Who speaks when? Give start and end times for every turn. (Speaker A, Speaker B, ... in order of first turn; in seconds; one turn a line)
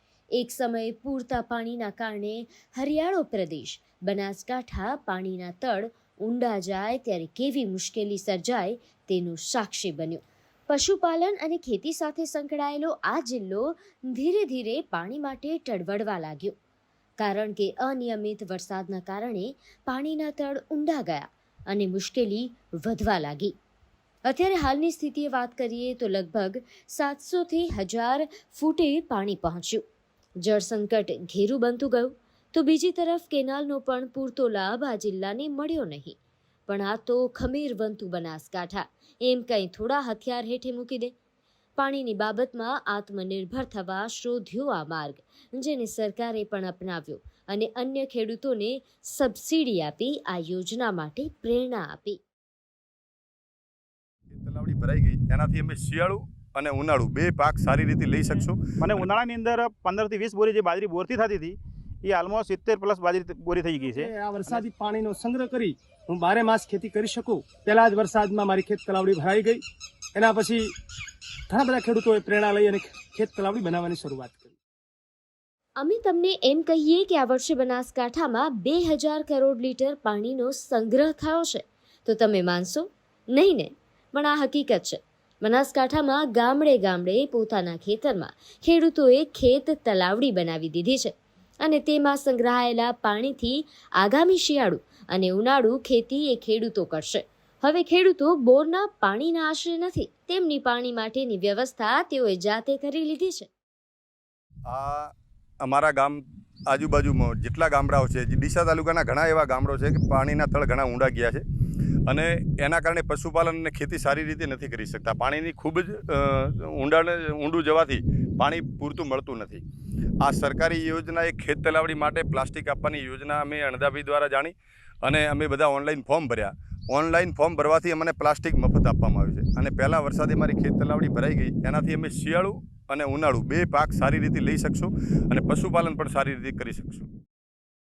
Speaker A: 0.3-16.5
Speaker A: 17.2-23.5
Speaker A: 24.2-29.8
Speaker A: 30.4-36.2
Speaker A: 36.7-41.1
Speaker A: 41.8-52.2
Speaker B: 54.3-58.6
Speaker C: 58.4-64.6
Speaker D: 63.8-69.6
Speaker D: 70.2-70.7
Speaker D: 71.5-74.6
Speaker A: 75.8-103.5
Speaker B: 104.7-105.1
Speaker B: 105.6-111.4
Speaker B: 112.1-119.6
Speaker B: 120.2-124.5
Speaker B: 125.0-137.1